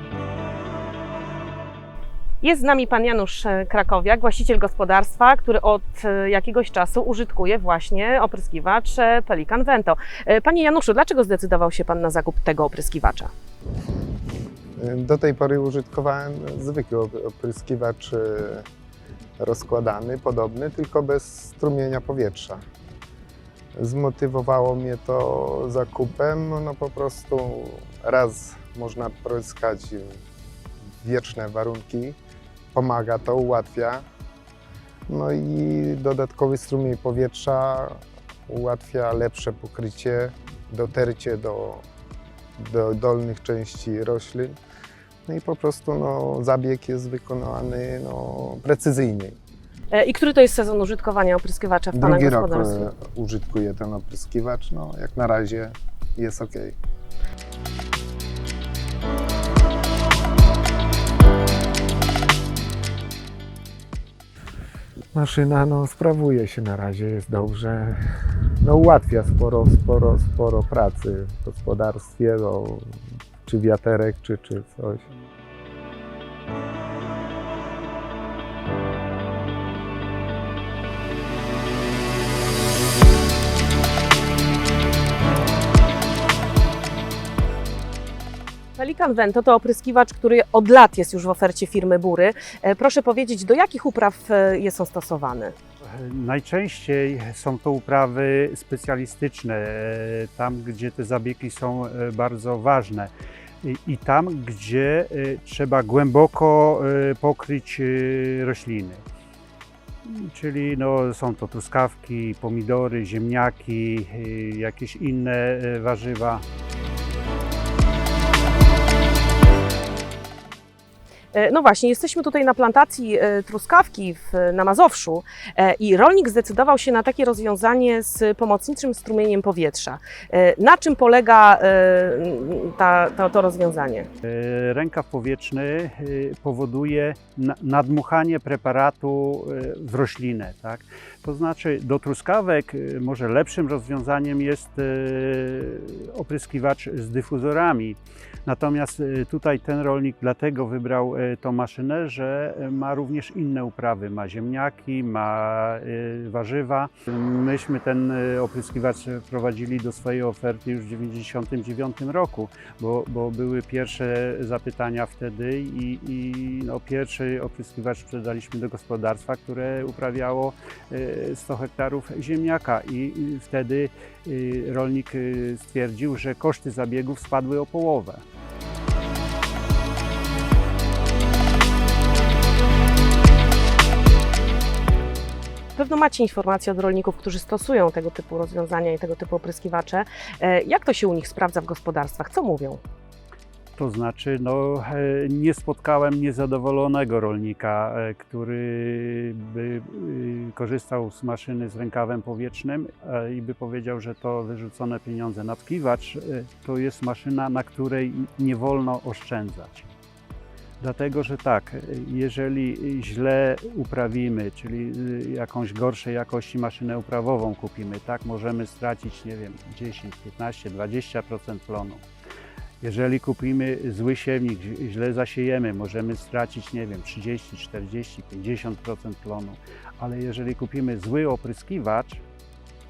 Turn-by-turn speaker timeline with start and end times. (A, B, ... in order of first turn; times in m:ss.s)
0:02.4-0:13.3 A
0:14.8-0:18.6 B
0:19.4-0:22.6 B
0:23.8-0:30.2 B
0:31.0-0:32.2 B
0:32.7-0:34.0 B
0:35.1-0:41.8 B
0:42.6-0:44.6 B
0:45.2-0:49.4 B
0:49.9-0:52.9 A
0:51.9-0:56.7 B
1:05.1-1:15.0 B
1:28.8-1:35.5 A
1:35.8-1:43.1 C
1:43.6-1:49.0 C
1:50.0-1:56.4 C
2:01.3-2:14.1 A
2:14.2-2:58.2 C
3:05.7-3:12.8 A
3:13.8-3:29.9 C
3:30.8-3:42.0 C
3:42.8-3:52.2 C